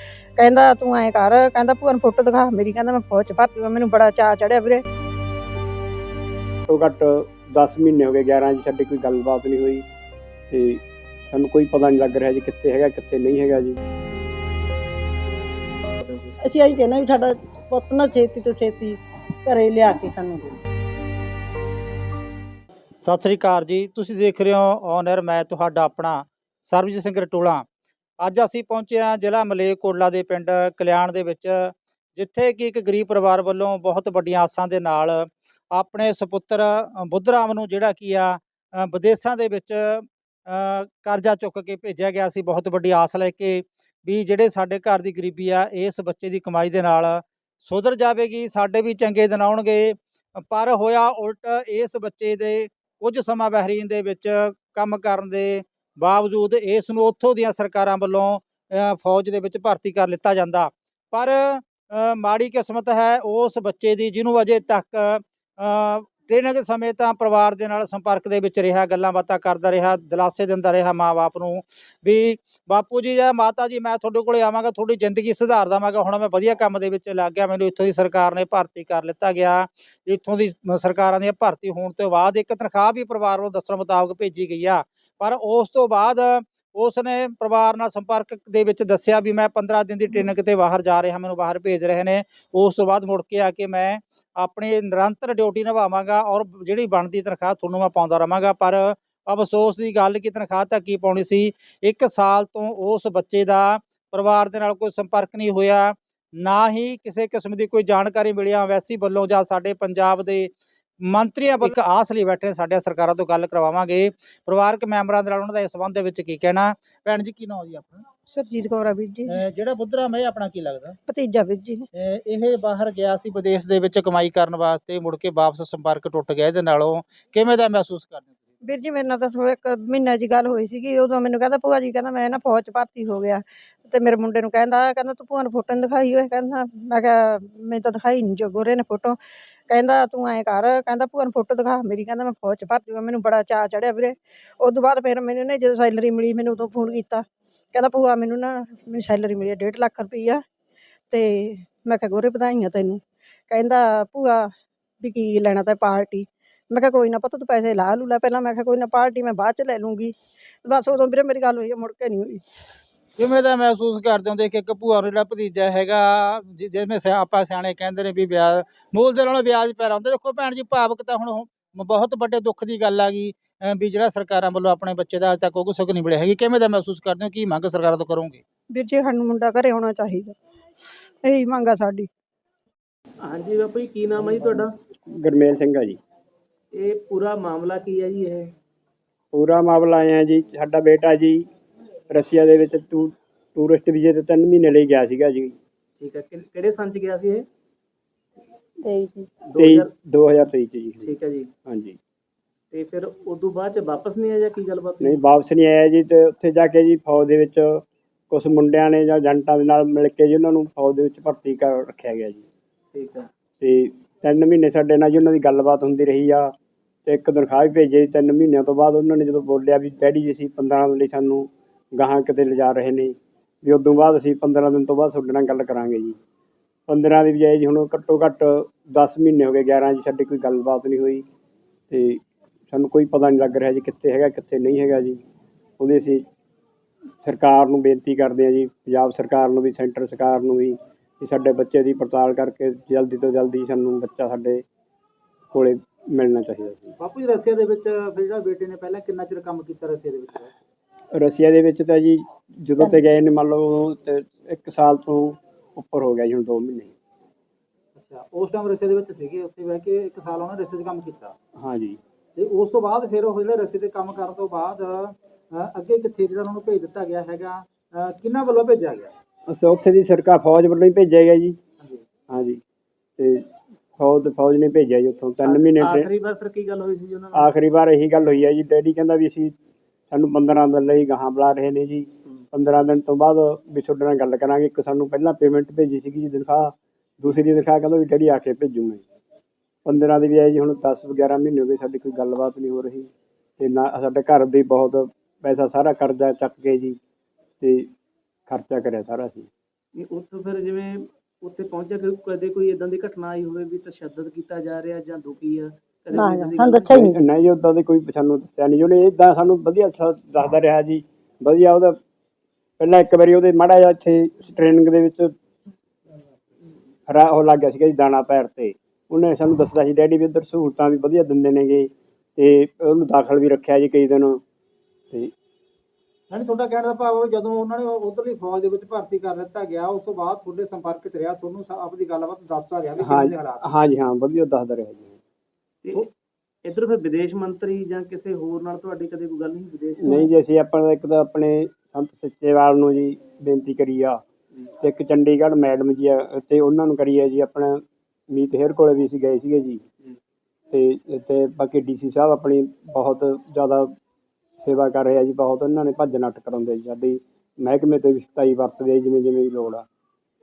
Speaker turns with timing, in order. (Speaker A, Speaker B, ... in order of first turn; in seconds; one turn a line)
Speaker A: 0.4-4.8
Speaker B: 6.7-9.8
Speaker B: 10.5-13.8
Speaker C: 16.0-16.3
Speaker D: 16.4-20.6
Speaker E: 23.0-27.6
Speaker E: 28.2-118.0
Speaker A: 118.3-119.3
Speaker E: 119.2-121.0
Speaker A: 121.1-121.9
Speaker E: 121.9-128.4
Speaker A: 128.6-139.2
Speaker A: 139.7-150.4
Speaker A: 151.1-154.5
Speaker A: 155.0-162.4
Speaker E: 163.2-178.4
Speaker A: 178.7-180.3
Speaker A: 181.2-182.1
Speaker C: 183.2-184.7
Speaker B: 185.1-186.0
Speaker C: 186.7-188.5
Speaker B: 189.3-191.5
Speaker B: 192.1-195.6
Speaker C: 196.0-197.4
Speaker C: 199.5-199.9
Speaker B: 199.6-201.2
Speaker C: 201.0-201.5
Speaker B: 201.7-202.0
Speaker C: 202.7-205.2
Speaker B: 205.0-212.4
Speaker C: 212.9-213.3
Speaker B: 213.6-216.5
Speaker B: 217.1-226.2
Speaker B: 226.9-231.2
Speaker B: 231.9-235.2
Speaker B: 235.8-236.2
Speaker B: 237.2-244.6
Speaker B: 245.5-246.9
Speaker E: 247.0-250.5
Speaker B: 251.1-256.9
Speaker E: 257.9-261.3
Speaker B: 261.6-262.0
Speaker E: 262.4-269.1
Speaker B: 269.5-271.6
Speaker B: 272.3-272.6
Speaker B: 273.2-276.1
Speaker C: 275.4-277.5
Speaker B: 277.3-279.5
Speaker B: 280.1-289.0
Speaker B: 289.8-297.0
Speaker B: 297.6-297.9
Speaker B: 298.5-299.5
Speaker C: 300.0-306.9
Speaker D: 306.1-307.1
Speaker B: 306.8-312.0
Speaker B: 312.8-315.3
Speaker B: 317.1-324.4
Speaker E: 326.3-333.6
Speaker B: 333.0-335.2
Speaker C: 336.6-340.2
Speaker B: 340.0-344.2
Speaker B: 344.8-349.8
Speaker B: 350.7-353.9
Speaker B: 354.6-359.8